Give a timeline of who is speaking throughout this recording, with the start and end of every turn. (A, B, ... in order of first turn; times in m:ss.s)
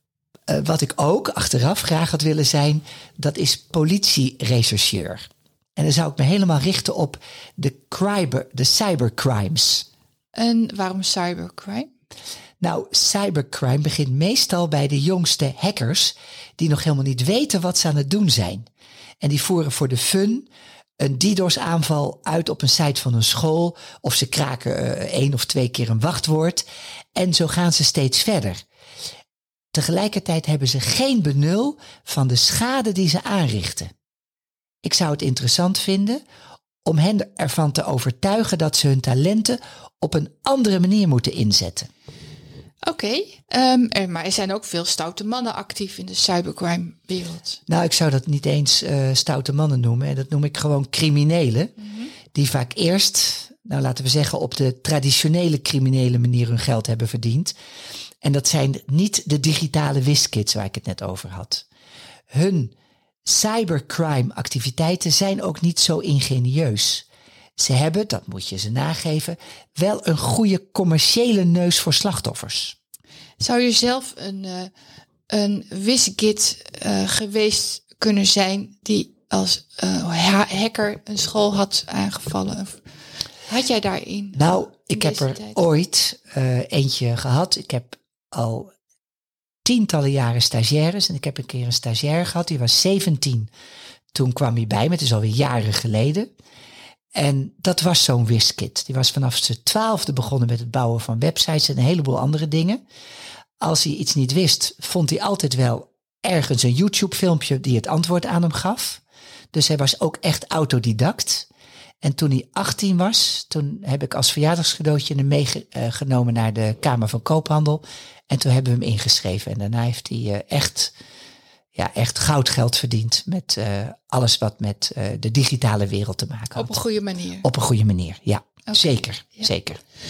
0:00.5-0:09.8 A
0:10.3-0:11.9 B
0:12.6-0:18.7 A
0:19.2-0:20.5 A
0:21.0-0:26.6 A
0:27.1-0:28.6 A
0:29.7-0:33.9 A
0:34.8-0:36.2 A
0:36.8-0:41.9 A
0:42.8-0:47.6 B
0:47.7-0:51.7 A
0:51.8-0:52.1 B
0:52.3-0:57.5 A
0:58.2-1:01.6 A
1:02.3-1:02.7 A
1:03.2-1:07.0 A
1:07.6-1:12.7 A
1:13.4-1:14.7 B
1:15.3-1:22.8 B
1:23.5-1:25.6 B
1:24.4-1:28.7 A
1:29.6-1:33.5 A
1:34.1-1:36.3 A
1:37.1-1:42.8 A
1:43.6-1:49.0 A
1:49.5-1:51.5 A
1:52.0-2:00.9 A
2:01.8-2:06.8 A
2:06.6-2:07.4 B
2:07.4-2:09.8 A
2:08.7-2:09.5 B